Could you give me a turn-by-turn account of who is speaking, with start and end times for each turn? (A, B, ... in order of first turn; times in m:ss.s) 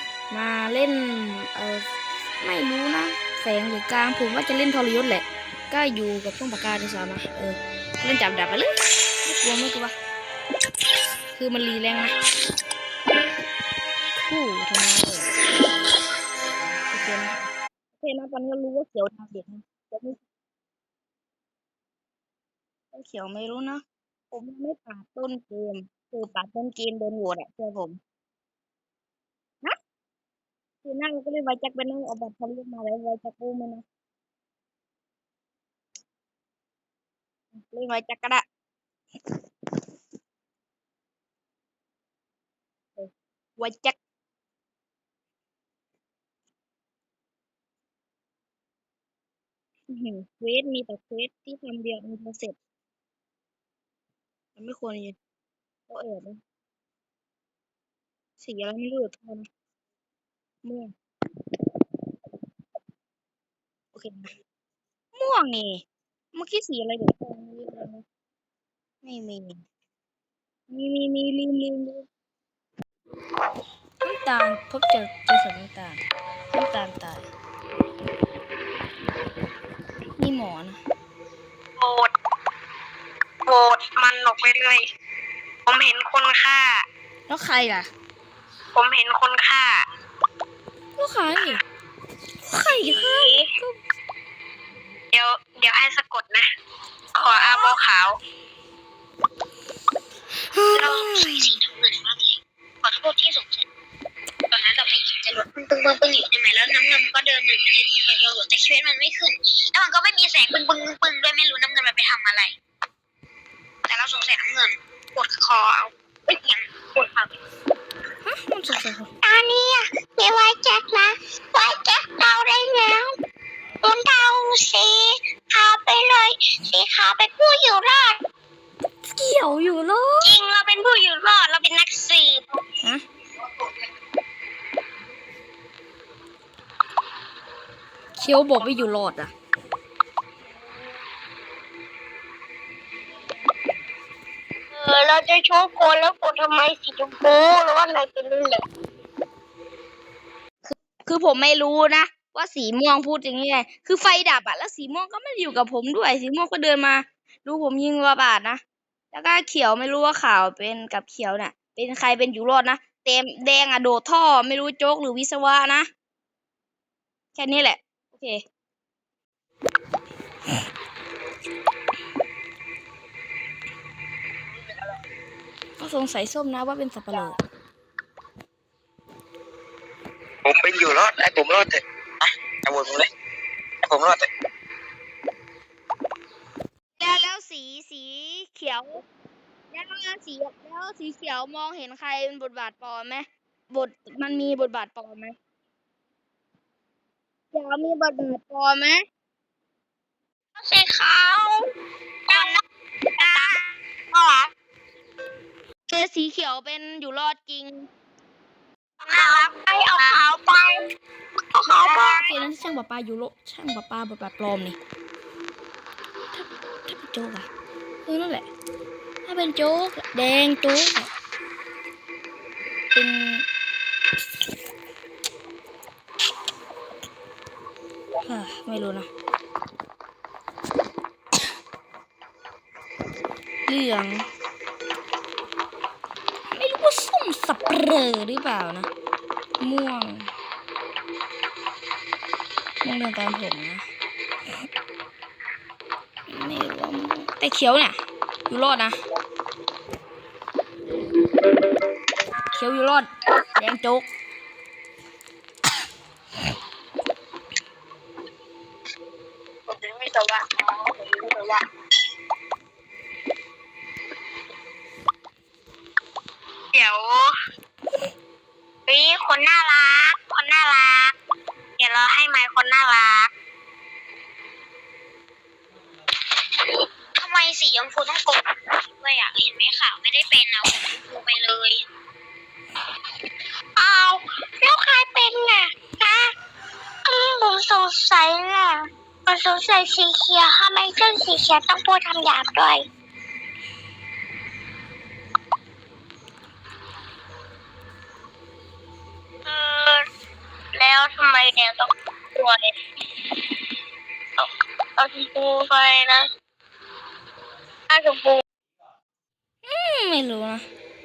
0:00.3-0:01.9 A
0:02.4-0:09.9 A
0:11.3-0:12.1 A
0:14.1-0:15.3 A
0:16.9-0:17.4 A
0:18.0-0:20.2 A
0:22.9-0:28.0 A
0:30.8-0:33.8 A
0:37.5-0:38.4 A
0:43.0-0:44.0 A
0:49.9-0:52.6 A
0:54.6-0:55.2 A
0:55.9-0:56.4 A
0:58.4-0:59.5 A
1:00.6-1:00.9 A
1:03.9-1:04.3 A
1:05.2-1:05.8 A
1:06.3-1:08.0 A
1:09.0-1:09.6 A
1:10.7-1:12.0 A
1:14.0-1:17.3 A
1:20.2-1:20.8 A
1:21.8-1:22.1 B
1:23.4-1:24.8 B
1:25.7-1:26.8 B
1:27.3-1:27.9 A
1:28.7-1:29.8 B
1:31.0-1:31.6 A
1:32.4-1:33.8 A
1:32.6-1:33.5 B
1:35.1-1:36.5 B
1:37.1-1:37.8 A
1:37.2-1:38.2 B
1:40.5-1:41.5 A
1:40.7-1:42.3 B
1:42.8-1:43.6 B
1:44.5-1:52.5 B
1:53.9-1:57.3 B
1:58.2-1:59.1 A
1:59.2-2:03.1 B
2:03.8-2:08.2 B
2:09.1-2:10.4 A
2:10.2-2:12.4 B
2:18.2-2:19.3 A
2:24.7-2:28.6 B
2:30.6-2:38.6 A
2:39.1-2:45.9 A
2:47.3-2:48.4 A
2:55.8-2:57.4 A
3:00.4-3:03.1 C
3:03.8-3:04.3 C
3:07.0-3:09.0 A
3:09.7-3:15.3 A
3:17.5-3:19.0 A
3:20.6-3:21.6 B
3:22.3-3:22.6 B
3:23.2-3:23.6 B
3:23.2-3:23.5 A
3:24.1-3:24.5 B
3:25.9-3:27.9 A
3:29.0-3:30.8 B
3:31.6-3:32.3 B
3:31.6-3:34.8 A
3:36.3-3:37.5 A
3:38.0-3:38.5 A
3:39.2-3:41.1 A
3:42.9-3:43.5 A
3:48.2-3:49.1 A
3:53.7-3:54.2 A
3:56.6-3:58.9 A
3:59.6-4:00.3 A
4:02.8-4:03.8 A
4:06.3-4:08.0 A
4:08.5-4:09.0 A
4:12.5-4:14.1 A
4:19.7-4:21.6 B
4:26.7-4:27.3 B
4:28.9-4:31.1 B
4:31.8-4:33.3 B
4:37.2-4:41.8 B
4:43.8-4:46.3 B
4:47.0-4:52.8 B
4:59.5-5:00.0 B
5:00.7-5:02.7 B
5:04.4-5:06.3 B
5:07.9-5:08.4 B
5:09.6-5:10.6 A